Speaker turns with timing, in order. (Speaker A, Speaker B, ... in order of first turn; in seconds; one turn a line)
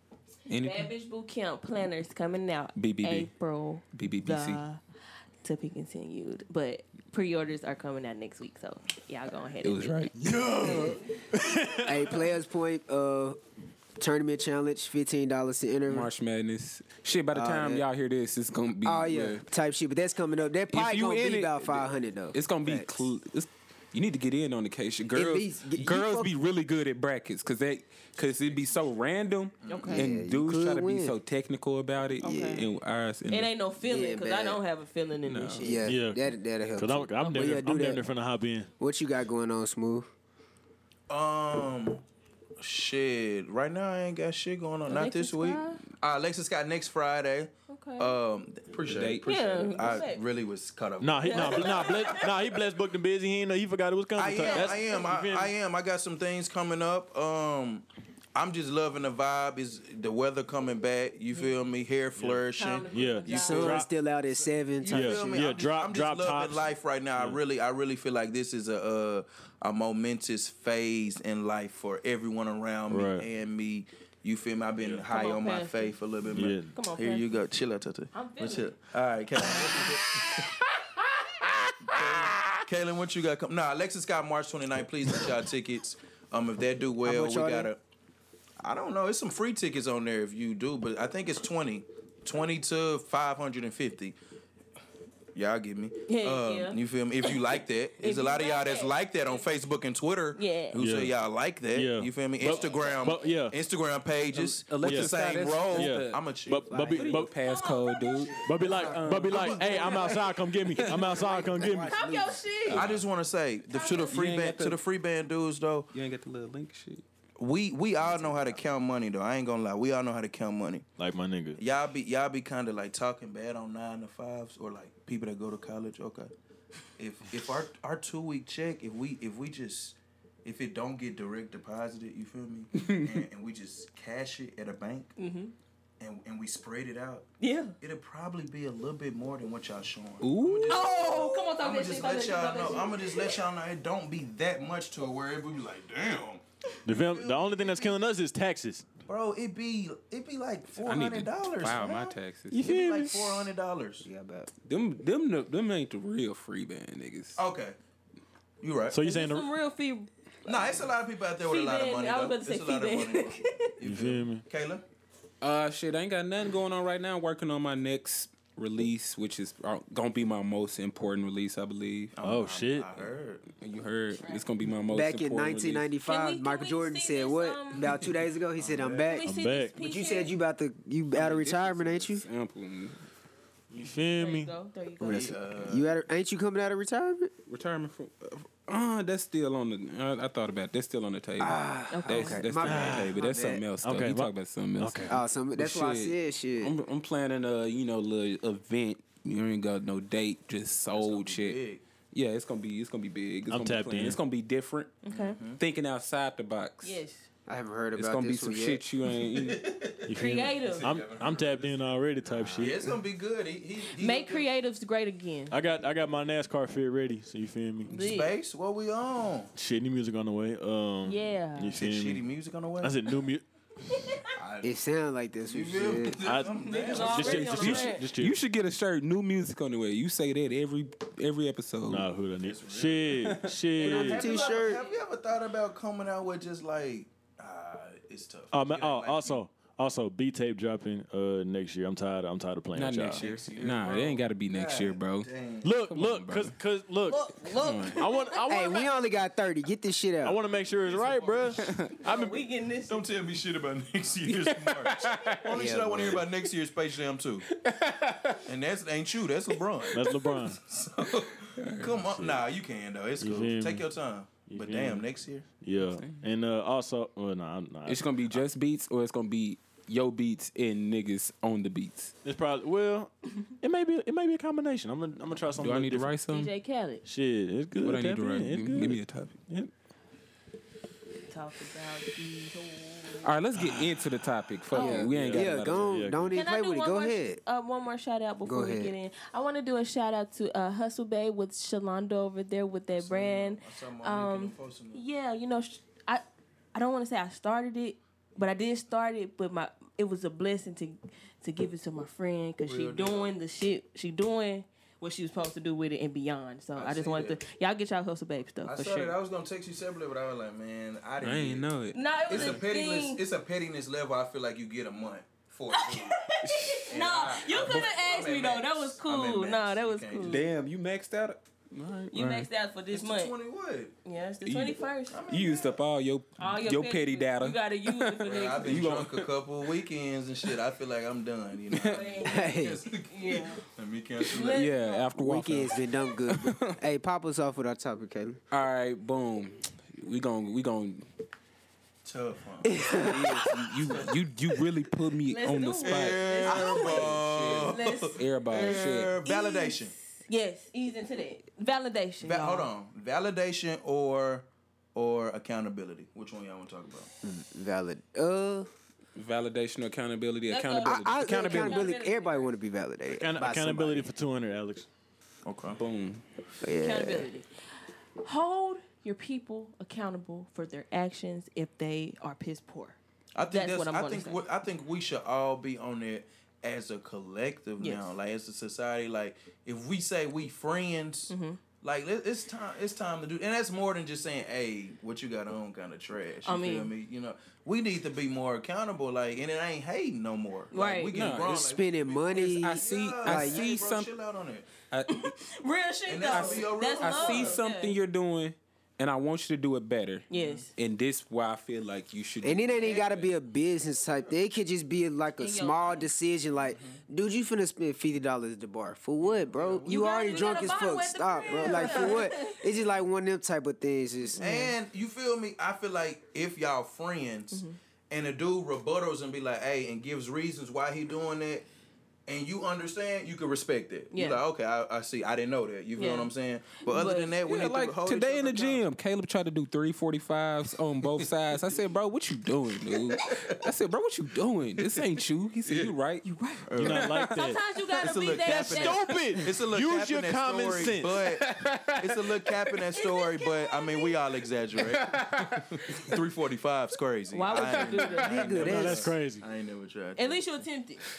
Speaker A: 0.5-0.9
Speaker B: 0.5-4.8
Speaker A: 2.8-3.3
Speaker A: 3.9-4.6
Speaker B: 5.4-10.1
Speaker A: 9.6-10.3
Speaker C: 10.2-12.2
Speaker D: 10.6-11.0
Speaker D: 11.8-13.4
Speaker D: 14.0-16.1
Speaker A: 15.9-19.4
Speaker D: 17.3-17.9
Speaker D: 18.8-23.0
Speaker A: 20.7-33.5
Speaker D: 25.1-26.3
Speaker E: 29.7-30.0
Speaker B: 29.7-30.1
Speaker D: 29.8-31.2
Speaker B: 32.2-32.6
Speaker D: 32.2-32.7
Speaker B: 33.3-35.8
Speaker D: 33.8-34.6
Speaker A: 35.2-35.9
Speaker D: 35.6-38.0
Speaker C: 35.8-36.2
Speaker C: 36.8-38.7
Speaker A: 37.2-37.6
Speaker D: 38.8-40.1
Speaker E: 41.1-42.0
Speaker E: 42.6-52.3
Speaker B: 44.9-45.8
Speaker B: 47.7-48.2
Speaker A: 48.8-49.3
Speaker B: 49.2-50.2
Speaker C: 51.0-55.5
Speaker B: 51.2-52.3
Speaker E: 54.2-62.9
Speaker B: 54.4-54.9
Speaker C: 62.2-63.9
Speaker B: 62.5-63.8
Speaker D: 63.2-65.5
Speaker E: 64.8-80.5
Speaker C: 64.9-67.4
Speaker C: 72.9-73.3
Speaker B: 75.1-76.0
Speaker C: 76.3-76.7
Speaker B: 76.7-77.3
Speaker B: 78.1-78.7
Speaker A: 79.6-82.6
Speaker E: 81.8-87.8
Speaker D: 87.0-87.7
Speaker E: 88.6-94.2
Speaker E: 95.3-106.7
Speaker B: 96.1-96.8
Speaker B: 98.0-99.0
Speaker B: 100.3-100.8
Speaker C: 100.8-101.2
Speaker C: 101.7-103.6
Speaker A: 104.2-111.3
Speaker C: 104.8-105.2
Speaker C: 105.7-107.3
Speaker D: 106.7-107.1
Speaker B: 107.4-108.5
Speaker E: 108.2-111.4
Speaker C: 108.4-112.0
Speaker D: 109.4-110.1
Speaker D: 110.8-112.4
Speaker B: 111.8-112.8
Speaker A: 112.7-113.1
Speaker E: 112.7-115.9
Speaker B: 113.7-114.2
Speaker A: 114.1-114.8
Speaker A: 115.9-117.0
Speaker E: 117.4-120.9
Speaker A: 118.0-118.7
Speaker C: 121.0-121.6
Speaker E: 121.6-126.3
Speaker E: 127.0-135.2
Speaker A: 132.8-133.2
Speaker B: 135.2-135.5
Speaker E: 136.0-137.3
Speaker B: 137.4-137.8
Speaker E: 137.8-147.9
Speaker A: 140.2-140.9
Speaker B: 140.7-143.4
Speaker C: 146.9-148.9
Speaker E: 149.1-154.1
Speaker A: 150.8-152.6
Speaker C: 152.5-153.5
Speaker D: 154.0-154.5
Speaker A: 154.7-157.4
Speaker E: 157.4-157.8
Speaker E: 158.6-159.0
Speaker C: 158.9-159.5
Speaker B: 159.0-160.9
Speaker E: 160.5-164.8
Speaker B: 161.4-163.7
Speaker C: 163.8-164.4
Speaker A: 165.4-172.1
Speaker E: 172.2-173.5
Speaker C: 172.2-172.9
Speaker A: 173.6-175.9
Speaker B: 174.2-174.5
Speaker D: 174.9-182.2
Speaker B: 176.1-178.0
Speaker E: 178.6-179.2
Speaker B: 179.0-180.3
Speaker C: 179.2-179.8
Speaker A: 181.1-183.0
Speaker C: 183.7-184.5
Speaker B: 184.2-185.3
Speaker D: 185.0-187.3
Speaker E: 185.1-185.9
Speaker A: 187.5-201.6
Speaker D: 191.4-193.7
Speaker B: 191.9-192.4
Speaker C: 192.6-193.2
Speaker C: 193.8-195.2
Speaker D: 195.1-196.8
Speaker E: 200.9-201.8
Speaker A: 202.1-205.0
Speaker C: 203.5-204.2
Speaker B: 205.0-205.4
Speaker E: 205.1-205.6
Speaker A: 205.6-207.0
Speaker B: 206.8-207.3
Speaker D: 207.5-208.8
Speaker A: 207.9-209.7
Speaker E: 209.3-211.9
Speaker C: 210.1-212.8
Speaker B: 210.1-210.9
Speaker E: 212.5-214.5
Speaker B: 213.9-215.6
Speaker C: 215.5-218.0
Speaker B: 217.9-218.3
Speaker E: 217.9-219.5
Speaker C: 219.6-222.2
Speaker B: 221.0-221.7
Speaker E: 221.8-223.0
Speaker C: 222.8-223.4
Speaker B: 223.9-224.3
Speaker E: 224.3-224.8
Speaker D: 224.6-226.4
Speaker E: 225.5-227.9
Speaker C: 226.2-228.4
Speaker B: 226.5-228.0
Speaker A: 227.6-232.1
Speaker C: 231.9-234.4
Speaker E: 232.4-239.4
Speaker A: 233.1-233.6
Speaker D: 233.8-234.8
Speaker B: 234.2-235.0
Speaker C: 238.5-243.3
Speaker A: 242.7-245.3
Speaker E: 243.1-245.8
Speaker C: 245.6-247.3
Speaker A: 245.9-246.6
Speaker B: 247.1-248.9
Speaker A: 247.6-248.0
Speaker C: 247.9-248.8
Speaker D: 248.5-250.4
Speaker C: 250.2-252.4
Speaker E: 250.6-251.8
Speaker A: 251.6-251.9
Speaker B: 252.0-253.0
Speaker E: 252.9-257.5
Speaker A: 254.2-256.2
Speaker D: 255.5-256.3
Speaker A: 257.5-258.5
Speaker E: 258.5-265.5
Speaker A: 259.9-260.4
Speaker C: 259.9-260.6
Speaker A: 261.6-261.9
Speaker C: 262.0-262.4
Speaker C: 263.2-263.9
Speaker C: 264.5-265.1
Speaker C: 265.6-268.4
Speaker A: 265.8-266.2
Speaker A: 267.9-272.1
Speaker C: 272.2-276.1
Speaker A: 275.6-276.5
Speaker B: 276.3-277.0
Speaker C: 277.0-279.7
Speaker A: 277.8-279.4
Speaker B: 281.3-283.3
Speaker A: 283.2-286.2
Speaker B: 284.7-285.1
Speaker D: 284.8-287.4
Speaker C: 285.0-286.4
Speaker B: 286.4-296.2
Speaker D: 288.4-288.9
Speaker E: 292.9-295.0
Speaker B: 296.7-309.2
Speaker E: 302.6-303.3
Speaker E: 306.8-307.4
Speaker E: 308.6-311.7
Speaker A: 311.2-312.6
Speaker B: 311.9-313.2
Speaker E: 312.3-316.2
Speaker B: 315.7-320.4
Speaker A: 316.4-317.9
Speaker E: 316.9-320.5
Speaker A: 320.2-322.5
Speaker B: 322.1-323.3
Speaker E: 322.9-323.9
Speaker B: 324.1-325.2
Speaker A: 324.4-324.8
Speaker E: 325.1-325.8
Speaker A: 325.3-329.3
Speaker B: 326.4-328.8
Speaker E: 328.2-334.7
Speaker A: 331.7-332.0
Speaker B: 331.9-333.6
Speaker D: 332.2-332.9
Speaker B: 334.2-335.1
Speaker A: 334.4-336.8
Speaker D: 335.2-338.4
Speaker A: 338.5-341.1
Speaker E: 342.1-344.1
Speaker D: 342.6-343.5
Speaker A: 342.9-349.2
Speaker B: 345.3-352.7
Speaker E: 345.8-349.9
Speaker E: 352.2-357.1
Speaker D: 357.2-358.7
Speaker A: 359.2-361.9
Speaker B: 360.5-362.5
Speaker D: 360.8-364.1
Speaker C: 363.1-364.9
Speaker E: 365.4-365.8
Speaker A: 365.8-366.2
Speaker D: 366.6-367.3
Speaker B: 366.8-367.5
Speaker B: 368.2-373.0
Speaker E: 373.4-394.7
Speaker B: 373.5-374.4
Speaker B: 377.8-378.1
Speaker B: 381.3-381.6
Speaker B: 386.4-386.9
Speaker B: 390.7-391.1
Speaker A: 391.1-391.7
Speaker D: 391.4-393.7
Speaker A: 392.3-394.1
Speaker A: 394.9-395.3
Speaker B: 395.1-398.0
Speaker E: 396.1-397.6
Speaker A: 396.3-403.2
Speaker B: 400.3-400.7
Speaker E: 400.3-400.6
Speaker D: 402.4-414.4
Speaker E: 402.9-403.3
Speaker B: 405.4-406.1
Speaker E: 406.7-407.0
Speaker E: 409.2-410.8
Speaker B: 409.9-412.6
Speaker E: 411.3-412.2
Speaker B: 414.4-414.7
Speaker E: 414.4-421.7
Speaker E: 422.3-428.8
Speaker B: 424.1-424.4
Speaker B: 426.0-426.3
Speaker B: 426.8-427.3
Speaker A: 427.4-436.3
Speaker E: 435.7-435.9
Speaker B: 436.2-439.2
Speaker E: 436.7-437.1
Speaker C: 436.8-437.6
Speaker A: 436.9-437.5
Speaker E: 438.0-450.4
Speaker C: 438.5-441.2
Speaker A: 441.2-442.8
Speaker B: 442.9-444.2
Speaker A: 444.8-446.2
Speaker B: 447.3-448.8
Speaker A: 447.5-448.1
Speaker D: 448.1-449.1
Speaker C: 448.5-449.5
Speaker B: 450.2-451.0